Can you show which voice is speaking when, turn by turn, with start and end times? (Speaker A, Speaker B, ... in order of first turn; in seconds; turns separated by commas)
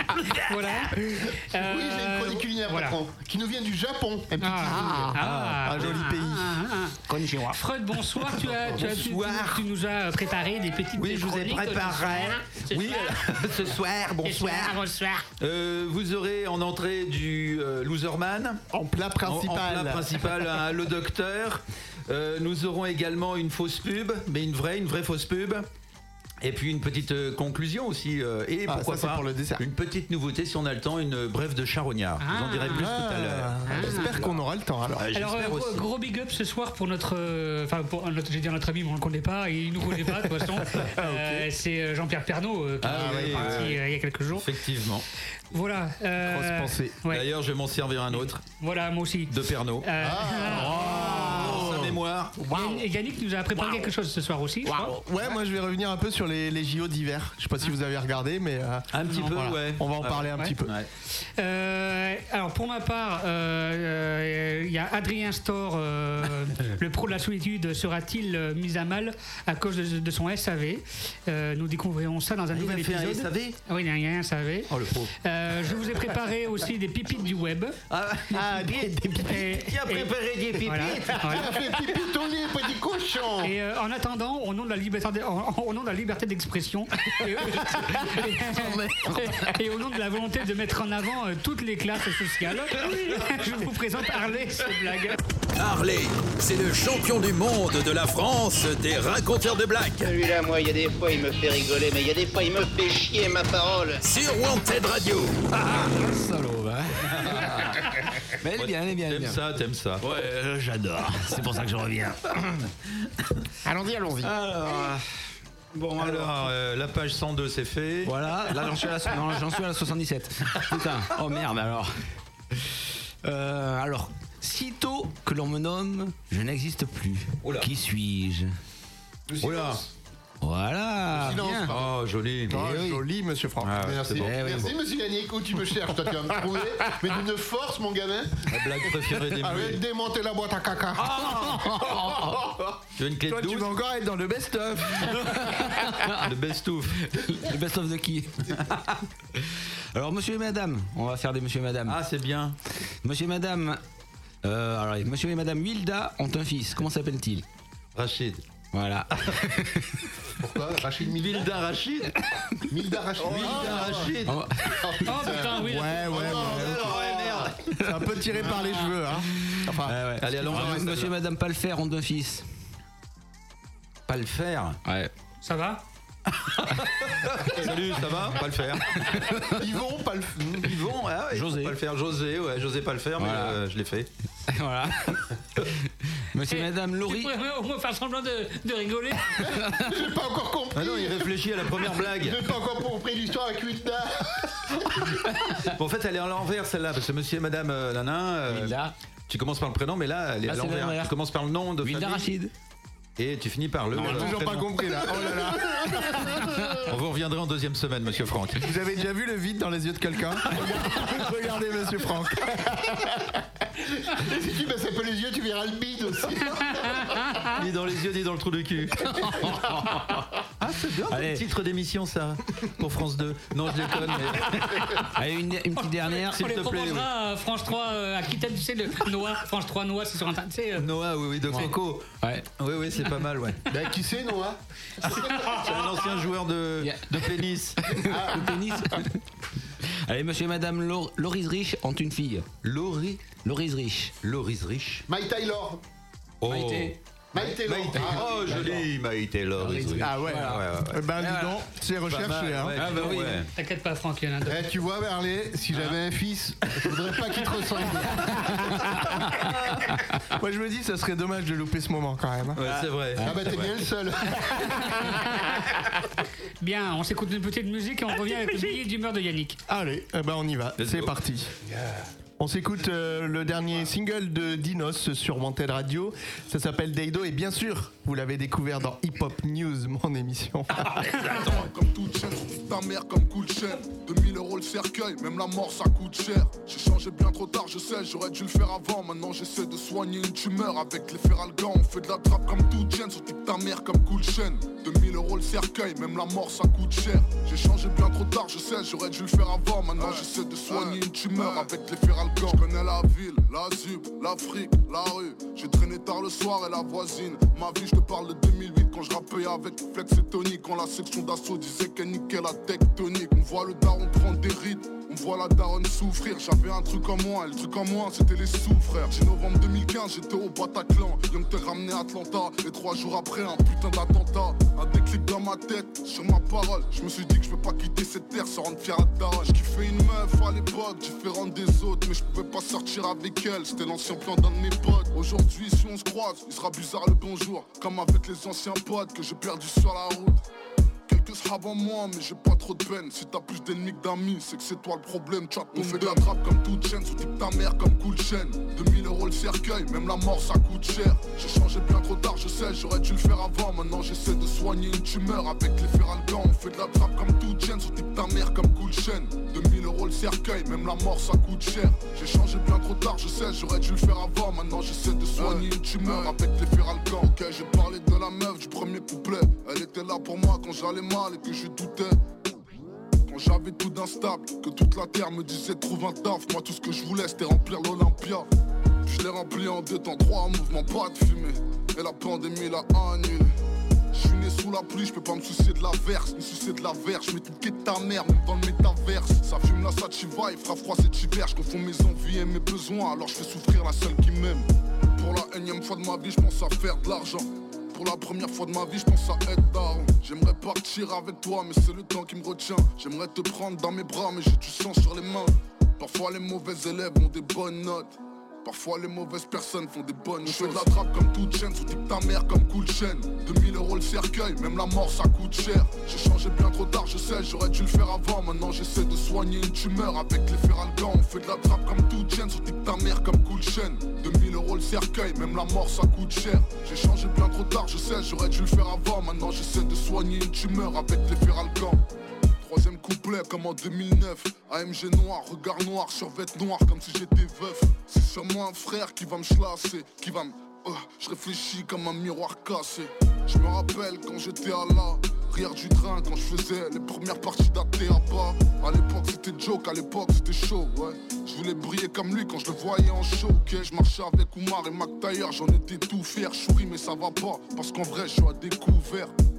Speaker A: 0.3-1.0, Speaker A: 1.5-3.0, Speaker B: 1.5-5.1, Speaker A: 4.4-7.0, Speaker C: 4.8-6.5, Speaker D: 7.1-7.6, Speaker A: 7.5-13.4, Speaker E: 8.5-9.6, Speaker E: 10.9-14.8, Speaker A: 14.2-15.2, Speaker E: 15.4-18.6, Speaker C: 18.7-20.3, Speaker E: 19.2-25.7, Speaker E: 26.4-34.4, Speaker C: 28.7-29.6, Speaker A: 32.2-32.9, Speaker C: 32.7-35.0, Speaker A: 33.7-34.1, Speaker E: 35.0-35.8, Speaker A: 35.1-44.5, Speaker C: 40.6-41.5, Speaker E: 42.8-43.8, Speaker C: 42.9-43.6, Speaker E: 44.3-45.0, Speaker A: 45.5-47.2, Speaker C: 46.2-47.0, Speaker E: 47.1-48.4, Speaker A: 48.5-51.3, Speaker E: 49.3-49.9, Speaker B: 50.0-51.7, Speaker C: 50.4-52.8, Speaker E: 50.9-52.4, Speaker A: 52.5-54.9, Speaker C: 54.7-60.7, Speaker E: 58.9-60.9, Speaker A: 61.4-74.7, Speaker E: 72.5-73.5, Speaker E: 74.7-75.1, Speaker A: 75.2-77.8, Speaker E: 77.9-81.5, Speaker C: 78.3-79.5, Speaker A: 79.2-80.1, Speaker A: 80.6-81.5, Speaker B: 81.3-83.5, Speaker A: 83.4-95.2, Speaker C: 88.5-88.9, Speaker F: 95.5-100.1, Speaker G: 100.0-104.0, Speaker F: 104.0-105.5, Speaker D: 105.6-107.7, Speaker E: 107.1-107.8, Speaker D: 108.4-109.4, Speaker E: 108.5-110.0, Speaker D: 110.0-112.5, Speaker D: 113.9-115.0, Speaker D: 115.7-116.5, Speaker E: 116.0-118.6, Speaker D: 118.0-121.9, Speaker D: 123.2-128.5, Speaker E: 127.4-127.7, Speaker B: 129.3-129.8, Speaker E: 129.4-129.8, Speaker D: 130.4-131.7, Speaker B: 131.1-131.9, Speaker E: 131.7-133.0, Speaker C: 132.5-133.8, Speaker E: 133.6-134.3, Speaker B: 133.8-138.4, Speaker D: 134.2-134.7, Speaker E: 138.5-139.8, Speaker C: 139.4-139.7, Speaker B: 139.5-141.3, Speaker E: 141.0-141.8, Speaker C: 141.4-142.7, Speaker E: 143.0-143.7, Speaker C: 143.3-145.6, Speaker D: 145.9-146.3, Speaker E: 146.2-147.0, Speaker D: 147.1-148.3, Speaker D: 149.9-152.0, Speaker E: 151.9-152.5, Speaker D: 153.0-153.8, Speaker D: 154.4-157.4, Speaker E: 157.9-158.4, Speaker D: 158.7-159.8, Speaker B: 160.4-161.4, Speaker E: 161.0-162.2, Speaker B: 162.7-164.1, Speaker C: 163.2-164.0, Speaker E: 163.2-164.4, Speaker D: 164.2-164.8, Speaker B: 164.8-165.7, Speaker A: 165.1-166.4, Speaker C: 165.6-167.0, Speaker E: 166.2-167.6, Speaker B: 166.2-166.9, Speaker C: 167.8-170.7, Speaker D: 169.8-172.4, Speaker E: 170.2-171.1, Speaker E: 174.1-174.8, Speaker D: 174.8-175.1, Speaker A: 175.4-175.8, Speaker E: 176.4-179.2, Speaker B: 179.6-180.7, Speaker E: 180.6-184.1, Speaker D: 181.3-181.8, Speaker D: 183.2-183.6, Speaker D: 184.5-185.2, Speaker D: 186.3-187.3, Speaker A: 186.5-189.5, Speaker B: 189.6-194.6, Speaker E: 190.7-192.4, Speaker E: 195.7-198.8, Speaker D: 198.5-198.9, Speaker E: 199.3-202.3, Speaker D: 200.4-201.1, Speaker D: 201.8-202.5, Speaker E: 203.2-205.2, Speaker D: 203.9-204.3, Speaker C: 203.9-206.5, Speaker B: 205.6-206.7, Speaker E: 206.8-208.7, Speaker C: 208.6-213.0, Speaker B: 213.9-217.0, Speaker A: 216.7-217.5, Speaker E: 217.5-219.9, Speaker D: 219.1-220.0, Speaker E: 220.6-225.1, Speaker D: 221.1-221.4, Speaker D: 225.1-226.4, Speaker A: 225.8-230.9, Speaker E: 226.3-227.1, Speaker E: 230.8-233.6, Speaker B: 233.7-234.6, Speaker E: 235.1-237.8, Speaker D: 236.8-237.3, Speaker D: 237.9-239.2, Speaker B: 238.1-238.5, Speaker D: 240.1-242.5, Speaker E: 242.6-243.3, Speaker D: 243.4-244.1, Speaker E: 244.2-245.0, Speaker B: 245.1-245.8, Speaker E: 246.4-251.1, Speaker D: 246.5-246.9, Speaker B: 247.3-248.8, Speaker D: 248.0-248.6, Speaker D: 249.6-251.6, Speaker C: 249.9-252.9, Speaker E: 252.1-253.5, Speaker D: 252.8-253.4, Speaker A: 253.0-254.6, Speaker B: 254.4-258.7, Speaker C: 260.3-262.6, Speaker E: 262.6-263.7, Speaker B: 263.2-264.7, Speaker A: 264.7-265.7, Speaker A: 266.6-269.6, Speaker C: 269.7-271.5, Speaker E: 270.8-271.2, Speaker C: 272.4-281.2, Speaker H: 281.1-340.4, Speaker H: 341.1-372.2, Speaker H: 373.3-378.4, Speaker H: 379.0-383.5, Speaker H: 384.1-432.0, Speaker B: 410.4-410.8, Speaker H: 432.6-459.3